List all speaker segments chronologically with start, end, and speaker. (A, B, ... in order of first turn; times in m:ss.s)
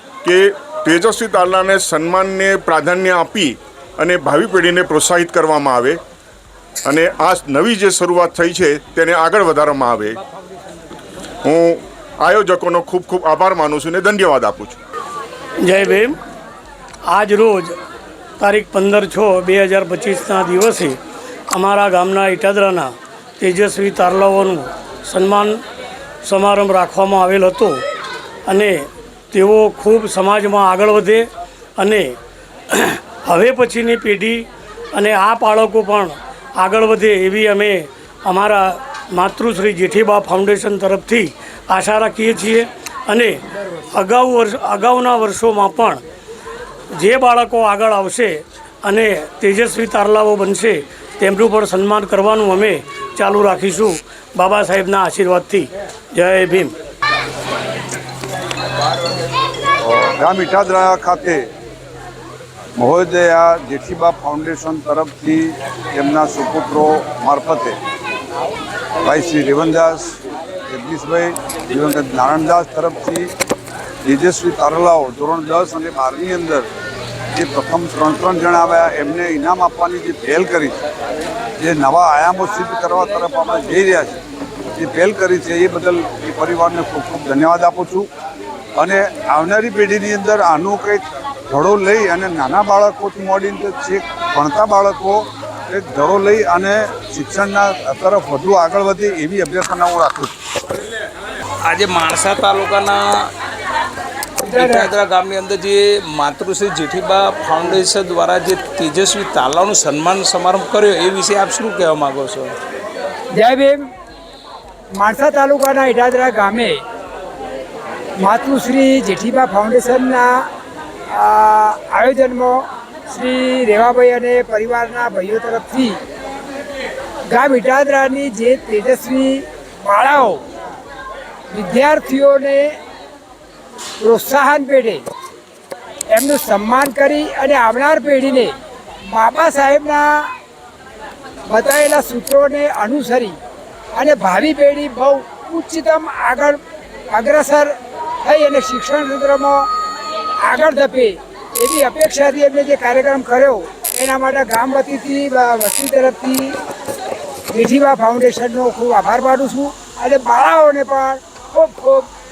0:00.2-0:06.0 A
0:06.9-0:10.2 A
0:11.5-0:14.8 A
0:15.6-0:16.2 B
0:17.1-0:17.8 B
0:18.4-0:21.0 B
0:21.5-0:25.6 B
0:26.2-0:27.8 B
0:28.5-0:31.3 B
0:31.8-0:32.2 B
0:32.7-0:43.4 B
0:43.9-0:46.0 B
0:47.0-0:56.7 B
0:59.8-1:01.4 C
1:02.8-1:07.8 C
1:09.0-1:10.1 C
1:10.7-1:13.3 C
1:14.1-1:16.7 C
1:17.4-1:20.8 C
1:21.6-1:24.2 C
1:24.8-1:28.1 C
1:28.8-1:40.3 C
1:41.6-1:43.0 D
1:44.4-1:44.9 E
1:44.5-1:52.5 D
1:53.3-1:53.8 E
1:55.0-1:56.8 E
1:58.2-2:00.4 E
2:01.1-2:06.0 E
2:07.3-2:10.4 E
2:11.5-2:12.7 E
2:14.0-2:15.0 E
2:16.1-2:18.6 E
2:19.1-2:20.3 E
2:21.5-2:23.4 E
2:24.0-2:26.6 E
2:27.1-2:29.6 E
2:30.4-2:36.6 E
2:37.5-2:42.1 E